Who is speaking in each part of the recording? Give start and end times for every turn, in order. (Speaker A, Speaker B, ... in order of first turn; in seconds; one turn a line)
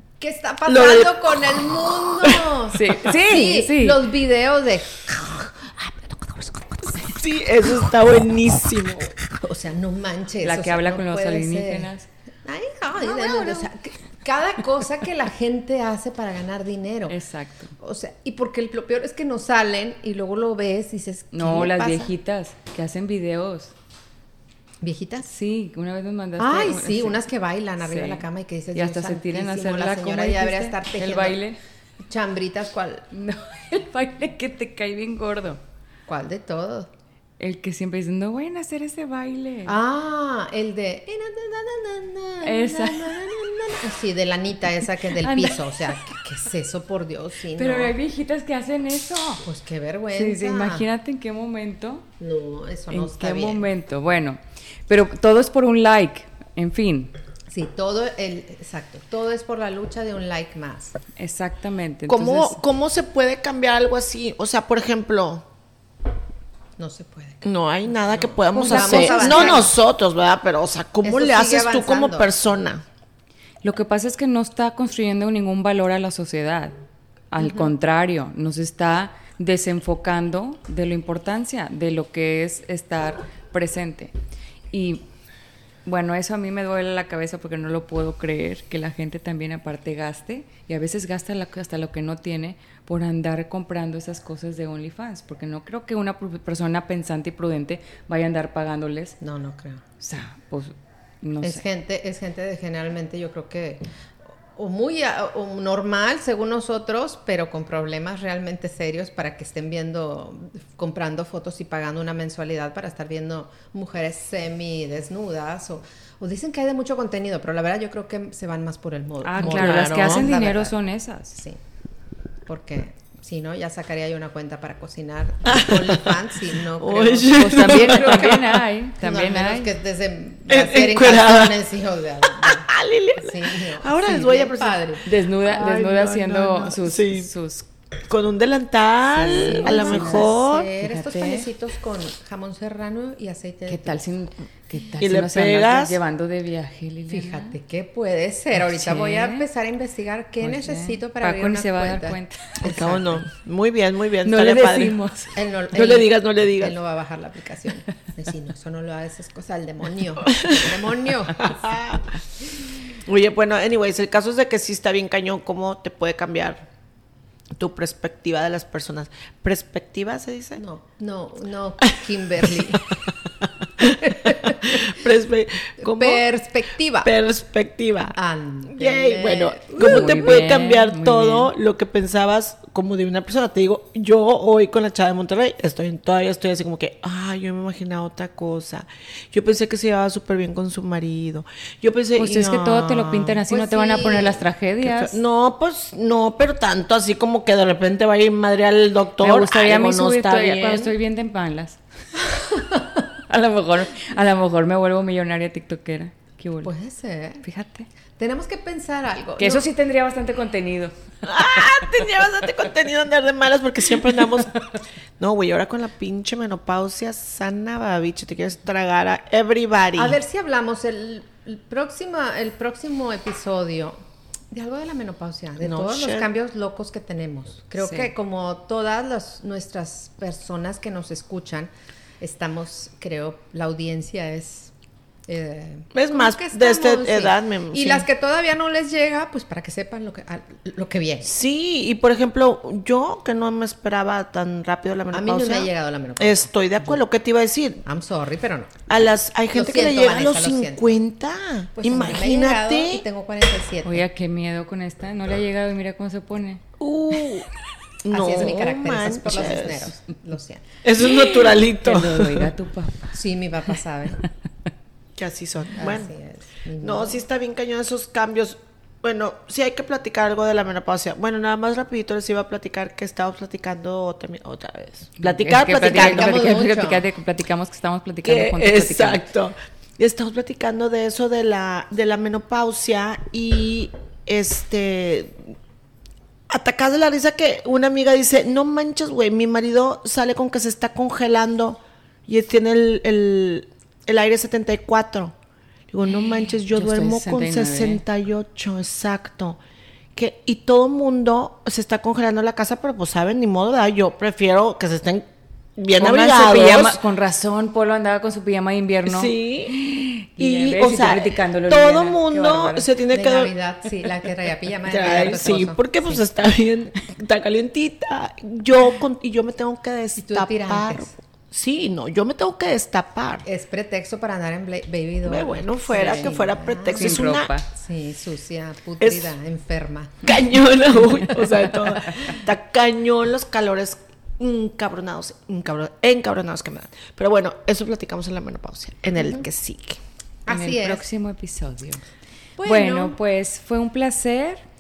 Speaker A: 0.2-5.5
Speaker B: 0.7-2.6
Speaker C: 2.7-4.0
Speaker B: 7.0-9.2
Speaker A: 9.4-11.9
Speaker C: 10.4-12.1
Speaker A: 12.4-17.1
Speaker C: 13.0-13.7
Speaker C: 17.1-17.7
Speaker A: 17.8-22.1
Speaker C: 21.3-23.7
Speaker A: 24.8-25.3
Speaker C: 25.3-27.2
Speaker A: 26.4-31.4
Speaker C: 27.8-31.6
Speaker A: 32.0-33.1
Speaker C: 33.1-35.6
Speaker A: 36.1-36.9
Speaker C: 37.4-39.8
Speaker A: 39.6-47.9
Speaker C: 42.4-43.4
Speaker C: 45.2-45.9
Speaker C: 47.6-49.4
Speaker A: 49.4-50.9
Speaker C: 50.1-52.1
Speaker A: 52.2-53.6
Speaker C: 52.9-57.1
Speaker A: 57.5-61.0
Speaker C: 61.2-62.6
Speaker B: 62.1-65.5
Speaker A: 66.8-67.4
Speaker B: 67.4-72.8
Speaker A: 68.0-69.7
Speaker C: 68.5-69.6
Speaker A: 71.0-72.3
Speaker C: 73.6-76.7
Speaker C: 77.3-84.1
Speaker A: 77.4-77.7
Speaker C: 84.7-85.0
Speaker C: 85.8-99.2
Speaker A: 99.2-99.8
Speaker C: 100.0-101.6
Speaker A: 101.4-103.8
Speaker A: 104.6-120.7
Speaker C: 119.2-121.4
Speaker B: 119.4-120.3
Speaker A: 121.3-121.6
Speaker A: 122.5-135.0
Speaker B: 125.5-128.4
Speaker C: 127.3-129.7
Speaker B: 130.5-131.6
Speaker B: 132.2-134.8
Speaker C: 135.0-137.7
Speaker B: 135.4-137.3
Speaker B: 138.1-140.7
Speaker C: 139.2-141.5
Speaker A: 139.2-144.0
Speaker C: 143.7-147.6
Speaker B: 145.0-146.0
Speaker A: 147.1-153.3
Speaker C: 148.6-149.5
Speaker C: 150.4-152.6
Speaker B: 152.6-155.0
Speaker C: 154.2-155.4
Speaker A: 155.3-161.7
Speaker B: 155.7-156.8
Speaker B: 160.3-160.7
Speaker B: 161.4-162.1
Speaker B: 163.1-166.7
Speaker B: 167.6-170.6
Speaker A: 170.6-173.0
Speaker B: 173.4-176.2
Speaker A: 173.8-174.9
Speaker A: 175.8-177.1
Speaker B: 177.0-178.1
Speaker A: 178.1-180.4
Speaker B: 178.7-193.4
Speaker C: 179.8-181.5
Speaker C: 192.2-195.2
Speaker A: 193.5-194.4
Speaker B: 194.8-200.9
Speaker C: 199.2-201.8
Speaker A: 202.5-202.8
Speaker C: 203.1-206.7
Speaker A: 206.6-207.4
Speaker C: 207.4-207.9
Speaker A: 208.2-209.7
Speaker C: 209.4-210.9
Speaker B: 211.2-214.6
Speaker B: 215.2-220.2
Speaker A: 220.0-224.0
Speaker A: 224.5-234.7
Speaker B: 225.6-226.3
Speaker C: 227.8-228.1
Speaker A: 235.3-241.3
Speaker B: 235.9-238.1
Speaker B: 241.2-247.8
Speaker A: 245.1-247.0
Speaker A: 247.9-248.8
Speaker B: 248.9-253.0
Speaker A: 249.5-251.0
Speaker A: 251.8-254.1
Speaker C: 253.8-256.6
Speaker B: 256.8-257.4
Speaker B: 258.0-259.9
Speaker A: 258.1-260.7
Speaker B: 260.8-262.5
Speaker C: 261.0-263.1
Speaker A: 263.1-264.2
Speaker B: 265.1-266.1
Speaker A: 265.7-267.2
Speaker B: 266.8-276.4
Speaker C: 275.2-279.3
Speaker A: 275.8-277.1
Speaker B: 278.2-285.5
Speaker B: 286.5-295.4
Speaker B: 295.9-299.6
Speaker C: 296.7-298.0
Speaker B: 300.1-307.0
Speaker C: 306.0-312.6
Speaker B: 309.1-309.8
Speaker B: 310.4-313.5
Speaker A: 310.7-311.1
Speaker A: 312.3-316.2
Speaker B: 314.9-323.4
Speaker A: 320.2-321.1
Speaker A: 323.4-330.3
Speaker B: 325.2-327.5
Speaker C: 325.9-326.3
Speaker C: 326.9-327.7
Speaker B: 329.0-329.3
Speaker B: 330.2-340.0
Speaker A: 339.2-339.4
Speaker A: 340.4-341.0
Speaker C: 340.5-342.0
Speaker A: 342.6-343.1
Speaker C: 342.6-344.6